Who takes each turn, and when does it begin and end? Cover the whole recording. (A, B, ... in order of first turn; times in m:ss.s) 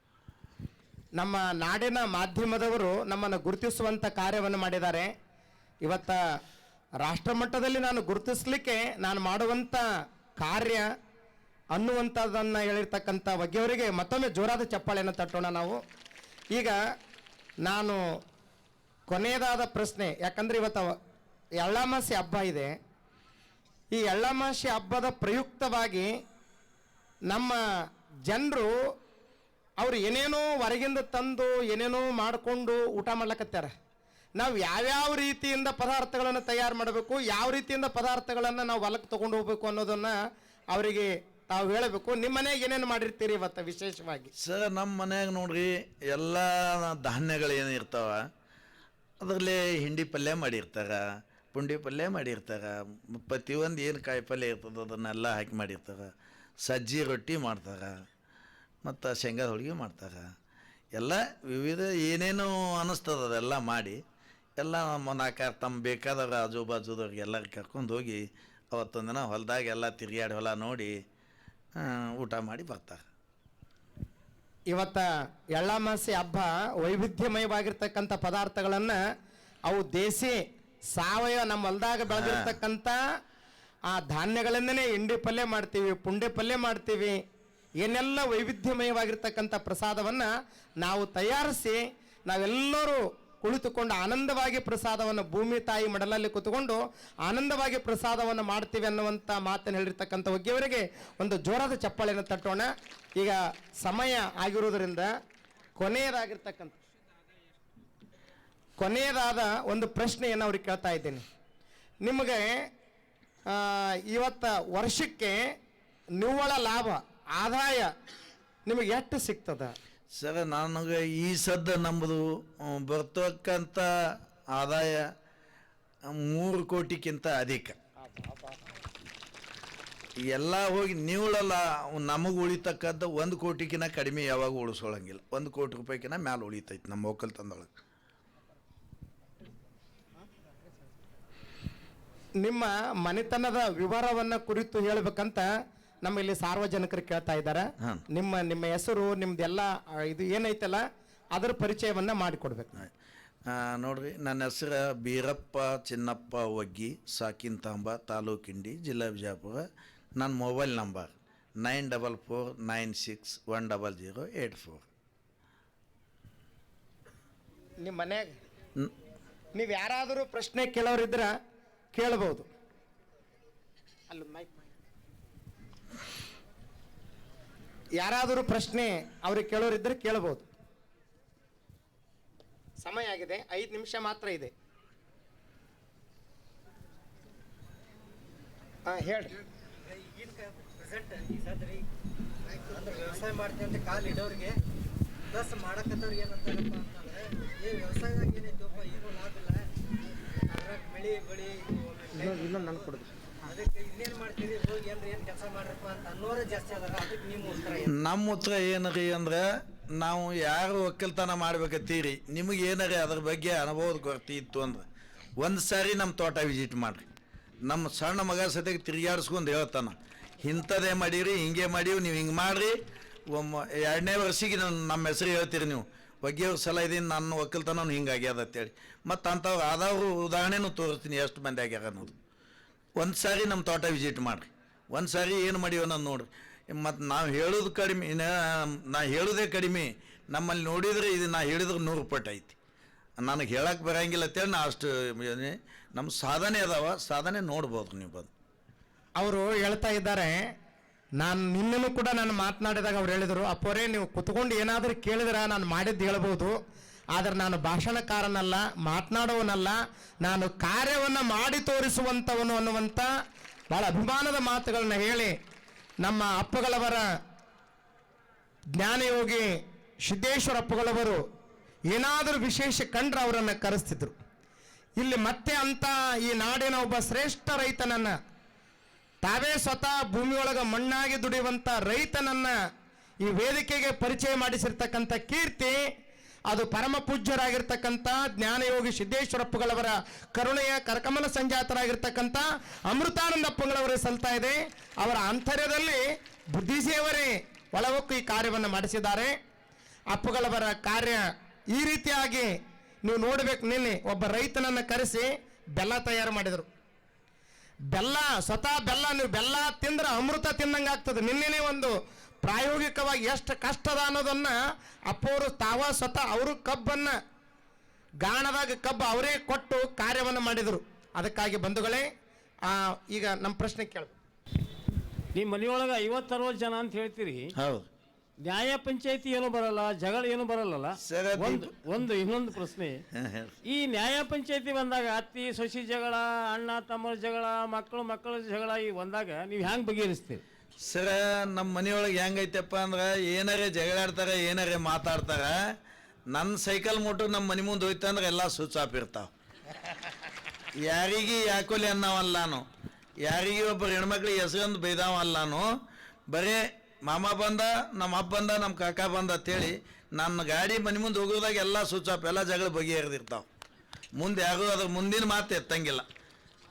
0:01.2-0:05.1 A
0:05.8-0:06.2 A
0:07.0-0:09.8 A
0:10.4-0:10.8 A
0:11.7-0:15.8 A
0:17.6-0:18.0 A
0:19.1-0:20.9 A
0:21.6-0:22.7 A
0:23.9-0:26.1 A
0:27.3-0:27.6 A
0:28.3-0:28.7 A
0:29.8-0:33.7 A
0:34.4-0:40.2 A
0:40.7-0:44.3 A
0:44.4-0:48.3 B
0:49.2-0:56.1 B
0:56.6-0:58.0 B
0:58.8-1:00.3 B
1:00.9-1:04.0 B
1:04.6-1:11.0 B
1:11.8-1:13.0 B
1:14.7-1:15.0 A
1:15.5-1:19.0 A
1:19.7-1:20.4 A
1:21.0-1:23.0 A
1:22.1-1:22.6 B
1:23.9-1:27.2 A
1:27.8-1:30.3 A
1:30.8-1:45.1 A
1:45.8-1:46.8 A
1:48.8-1:51.2 A
1:52.0-1:52.6 A
1:53.5-1:55.4 A
1:56.2-1:57.9 A
1:58.7-1:59.7 A
2:00.2-2:05.1 B
2:06.0-2:07.8 B
2:10.3-2:17.7 B
2:22.4-2:25.5 A
2:26.0-2:30.8 A
2:27.8-2:28.0 B
2:31.3-2:32.7 A
2:33.4-2:39.7 B
2:40.2-2:44.9 B
2:47.8-2:48.3 A
2:49.5-2:51.3 A
2:51.9-2:52.5 A
2:54.1-2:54.5 A
2:58.0-3:00.5 A
3:02.8-3:04.5 A
3:08.9-3:09.3 A
3:09.8-3:11.8 C
3:12.5-3:14.5 C
3:15.3-3:19.6 C
3:20.5-3:27.9 C
3:27.8-3:34.9 B
3:35.4-3:37.1 B
3:37.6-3:52.2 B
3:53.0-4:02.6 B
4:03.2-4:08.3 B
4:09.2-4:10.4 A
4:11.2-4:16.6 A
4:17.2-4:23.1 A
4:23.7-4:25.3 A
4:26.0-4:27.1 A
4:28.8-4:31.2 A
4:31.9-4:34.2 A
4:35.0-4:38.2 A
4:39.2-4:42.5 A
4:43.2-4:45.8 A
4:46.5-4:59.3 A
5:00.1-5:02.5 A
5:03.0-5:06.7 A
5:07.9-5:14.6 A
5:15.1-5:17.2 A
5:18.2-5:22.1 A
5:22.7-5:24.1 A
5:25.3-5:27.5 D
5:27.5-5:27.9 B
5:28.4-5:33.0 D
5:31.0-5:31.7 B
5:33.1-5:33.6 B
5:33.6-5:40.4 D
5:40.8-5:45.8 B
5:46.3-5:49.3 B
5:50.7-5:52.6 B
5:53.2-5:55.7 B
5:56.3-6:03.4 B
6:04.2-6:06.0 B